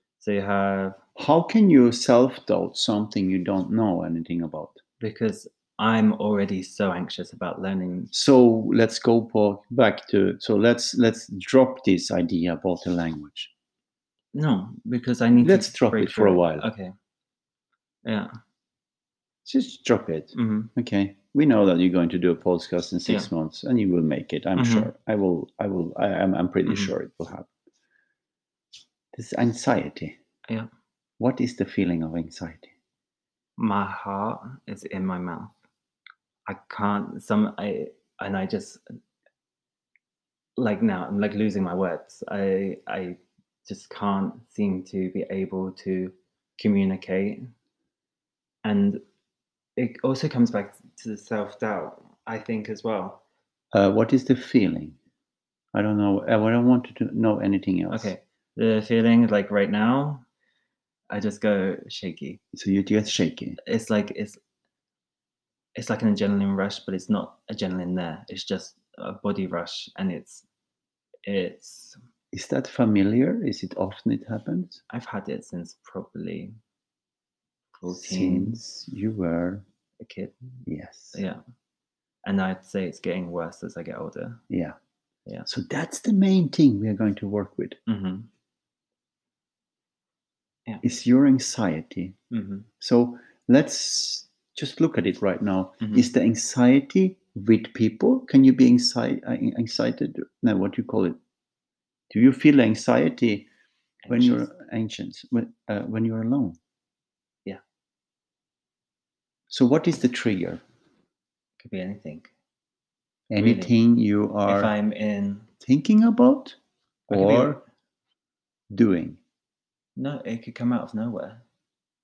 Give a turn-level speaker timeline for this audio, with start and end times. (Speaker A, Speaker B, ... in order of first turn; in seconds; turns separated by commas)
Speaker A: 0.2-1.0, Speaker B: 1.2-4.8, Speaker A: 5.0-8.1, Speaker B: 8.1-13.5, Speaker A: 14.3-16.9, Speaker B: 15.4-16.7, Speaker A: 18.1-18.3, Speaker B: 19.4-27.5, Speaker A: 20.3-20.7, Speaker A: 24.6-24.9, Speaker A: 26.7-26.9, Speaker B: 29.1-30.2, Speaker B: 31.2-32.7, Speaker A: 33.6-35.5, Speaker A: 36.5-38.8, Speaker A: 40.6-47.5, Speaker A: 48.6-49.0, Speaker A: 49.8-53.2, Speaker B: 53.7-55.0, Speaker B: 55.7-58.1, Speaker A: 57.9-60.2, Speaker A: 61.1-62.4, Speaker B: 62.5-63.6, Speaker A: 63.6-64.4, Speaker A: 65.8-70.5, Speaker A: 71.2-72.0, Speaker B: 72.3-74.8, Speaker A: 74.9-76.6, Speaker A: 77.8-78.6, Speaker B: 77.9-79.6, Speaker A: 80.0-80.4, Speaker B: 80.6-81.2, Speaker A: 81.1-81.4, Speaker A: 82.2-84.4, Speaker B: 84.5-84.8, Speaker B: 85.5-87.8, Speaker A: 87.9-88.3, Speaker B: 90.8-92.2, Speaker A: 92.3-92.7, Speaker B: 92.8-101.2, Speaker A: 95.8-96.1, Speaker B: 102.1-103.5, Speaker A: 104.0-104.5, Speaker B: 104.1-106.6, Speaker B: 109.5-110.6, Speaker A: 111.6-112.3, Speaker B: 113.3-114.7, Speaker A: 113.4-113.8, Speaker A: 114.5-115.5, Speaker B: 115.6-116.6, Speaker B: 117.1-117.6, Speaker A: 117.1-117.6, Speaker B: 118.7-119.2, Speaker A: 120.0-121.4